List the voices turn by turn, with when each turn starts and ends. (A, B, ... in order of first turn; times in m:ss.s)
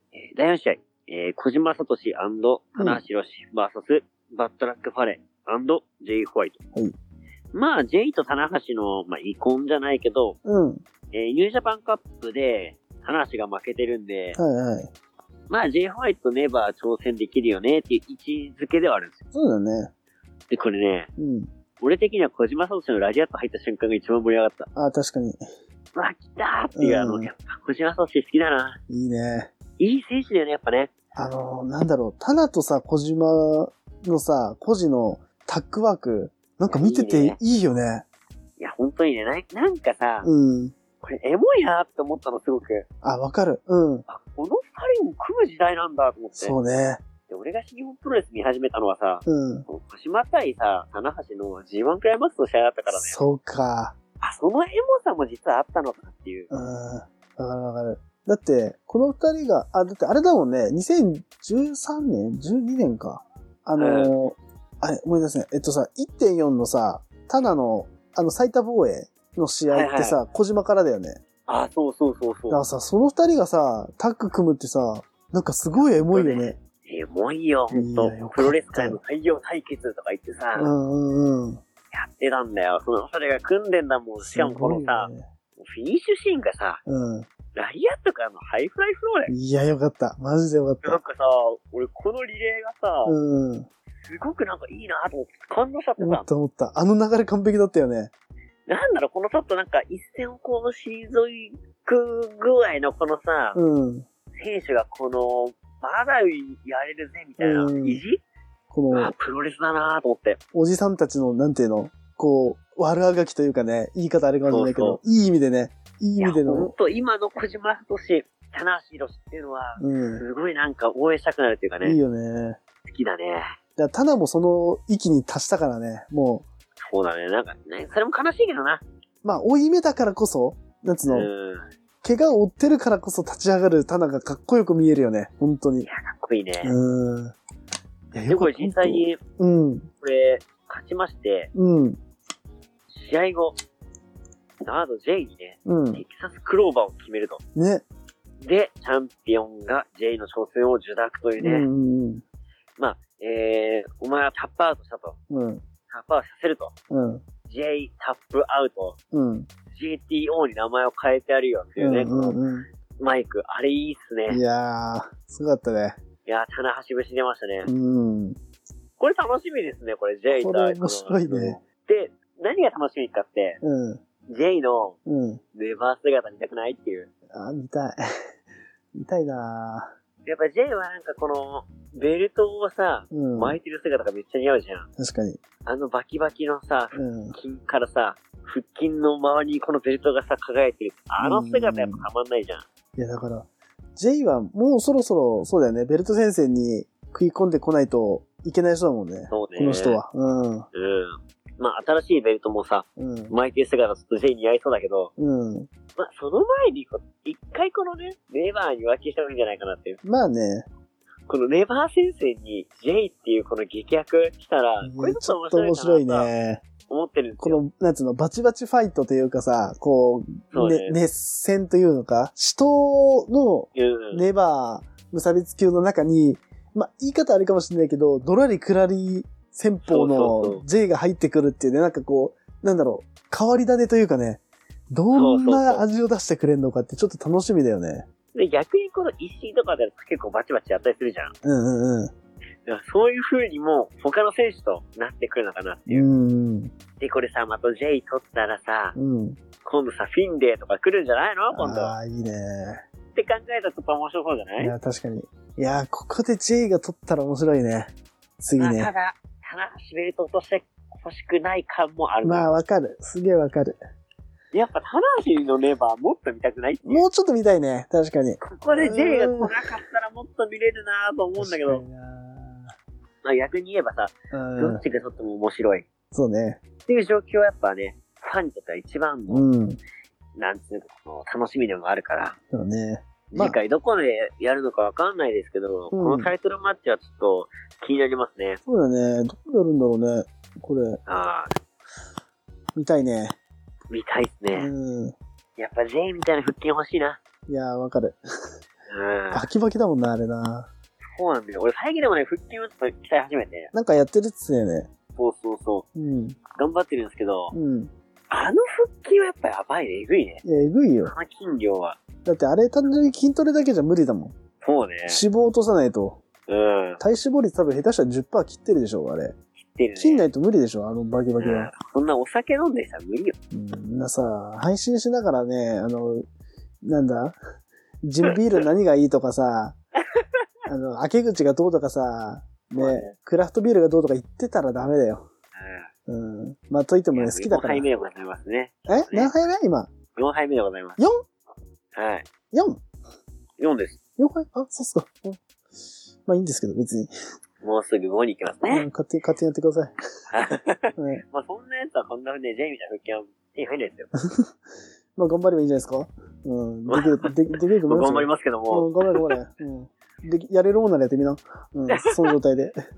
0:00.1-0:06.6 A
0:02.8-0:03.0 B
0:07.5-0:10.4 A
0:10.4-0:10.8 B
0:11.1-0:14.4 A
0:14.4-0:14.9 B
0:15.5-0:19.2 A
0:19.3-0:19.9 B
0:20.5-0:21.1 A
0:21.2-0:21.5 B
0:21.8-0:24.7 A
0:24.7-0:25.4 B
0:25.9-0:28.8 A
0:26.8-0:27.3 B
0:28.9-0:29.5 B
0:29.8-0:30.9 A
0:31.1-0:38.0 B
0:36.7-0:37.4 A
0:38.6-0:40.3 A
0:40.2-0:40.7 B
0:41.0-0:42.8 A
0:43.0-0:44.0 B
0:44.1-0:46.6 A
0:46.4-0:47.0 B
0:47.3-0:53.2 A
0:49.2-0:49.6 B
0:52.9-0:54.0 B
0:54.2-0:56.5 A
0:56.5-1:11.2 B
1:03.8-1:04.1 A
1:09.7-1:10.2 A
1:11.5-1:12.6 A
1:12.5-1:16.6 B
1:16.1-1:20.7 A
1:17.7-1:19.0 B
1:20.5-1:21.6 B
1:21.9-1:26.8 A
1:24.2-1:25.2 B
1:26.8-1:27.3 B
1:27.5-1:29.3 A
1:29.3-1:31.0 B
1:30.8-1:33.2 A
1:33.0-1:33.7 B
1:34.0-1:36.3 A
1:36.0-1:38.1 B
1:38.7-1:43.6 A
1:43.5-1:44.1 B
1:44.4-1:48.2 A
1:47.4-1:48.0 B
1:48.7-1:49.1 B
1:48.9-1:50.4 A
1:50.5-1:56.7 B
1:54.5-1:55.0 A
1:56.2-2:02.0 A
1:59.8-2:00.2 B
2:01.8-2:02.6 B
2:02.8-2:03.5 A
2:03.8-2:06.4 B
2:06.8-2:08.8 A
2:09.2-2:11.3 B
2:11.1-2:11.7 A
2:12.0-2:15.9 B
2:15.8-2:16.7 A
2:16.6-2:17.4 B
2:18.1-2:19.9 B
2:18.3-2:19.2 A
2:20.0-2:21.5 A
2:21.5-2:22.0 B
2:22.9-2:23.6 A
2:24.6-2:27.4 A
2:25.6-2:26.0 B
2:27.5-2:27.8 B
2:28.4-2:31.7 A
2:31.4-2:32.2 B
2:32.8-2:35.2 A
2:35.3-2:35.6 B
2:35.9-2:36.7 A
2:36.9-2:37.2 B
2:37.4-2:39.0 A
2:39.1-2:39.5 B
2:39.7-2:42.4 A
2:41.8-2:42.7 B
2:43.0-2:44.4 A
2:44.3-2:46.0 B
2:46.2-2:47.7 A
2:47.6-2:48.4 B
2:49.0-2:53.6 A
2:50.3-2:51.6 B
2:53.6-2:54.0 B
2:54.3-2:55.0 A
2:55.0-2:55.4 B
2:55.5-2:57.1 A
2:57.3-2:58.0 B
2:58.9-2:59.9 B
3:00.2-3:04.9 A
3:03.1-3:03.6 B
3:05.0-3:05.4 B
3:05.6-3:12.6 A
3:06.9-3:07.4 B
3:11.2-3:12.0 B
3:13.0-3:20.7 B
3:19.3-3:20.0 A
3:20.7-3:25.1 A
3:23.0-3:23.4 B
3:25.2-3:25.7 B
3:26.0-3:30.0 A
3:30.0-3:30.6 B
3:31.3-3:36.3 A
3:34.8-3:36.6 B
3:36.9-3:37.6 A
3:37.4-3:58.1 B
3:40.5-3:41.0 A
3:43.8-3:44.2 A
3:49.8-3:50.6 A
3:55.1-3:55.8 A
3:58.3-4:01.3 A
4:01.4-4:02.1 B
4:02.6-4:06.1 A
4:05.9-4:06.7 B
4:07.0-4:09.0 A
4:08.9-4:09.4 B
4:09.6-4:11.9 A
4:11.5-4:12.8 B
4:13.1-4:14.7 A
4:14.6-4:18.9 B
4:18.6-4:22.5 A
4:22.2-4:23.8 B
4:24.5-4:27.0 A
4:26.8-4:29.6 B
4:28.4-4:31.8 A
4:31.4-4:32.7 B
4:33.2-4:35.9 A
4:34.3-4:34.8 B
4:36.1-4:36.6 B
4:36.8-4:39.4 A
4:39.3-4:39.8 B
4:40.4-4:42.4 A
4:42.5-4:43.6 B
4:43.3-4:48.6 A
4:45.9-4:46.3 B
4:48.6-4:51.0 B
4:51.1-4:51.5 A
4:52.7-4:53.4 B
4:53.9-4:54.7 A
4:54.5-4:55.2 B
4:55.6-4:57.2 A
4:57.5-4:58.2 B
4:58.9-4:59.5 A
4:59.3-5:00.7 B
5:01.2-5:03.7 A
5:03.7-5:04.9 B
5:05.2-5:05.8 A
5:06.0-5:06.4 B
5:06.5-5:07.5 A
5:07.5-5:07.9 B
5:08.3-5:10.4 A
5:10.4-5:11.1 B
5:11.0-5:12.0 A
5:12.2-5:14.4 B
5:14.6-5:15.2 A
5:15.1-5:16.2 B
5:16.5-5:17.0 A
5:17.0-5:19.4 B
5:19.6-5:20.2 A
5:20.0-5:21.7 B
5:21.4-5:23.4 A
5:23.5-5:26.2 B
5:26.8-5:27.4 B
5:28.0-5:29.8 B
5:28.2-5:28.6 A
5:30.7-5:35.3 B
5:32.7-5:33.1 A
5:35.5-5:35.9 A
5:36.1-5:37.8 B
5:37.1-5:39.3 A
5:38.9-5:39.9 B
5:40.1-5:41.0 A
5:41.9-5:42.2 A
5:42.5-5:42.8 B
5:43.6-5:44.0 A
5:44.2-5:45.4 B
5:46.2-5:47.1 B
5:47.6-5:48.8 A
5:48.7-5:49.9 B
5:50.3-5:54.1 A
5:51.0-5:51.2 B
5:55.2-6:02.8 B
5:56.9-5:57.3 A
5:57.8-5:59.3 A
6:01.9-6:02.3 A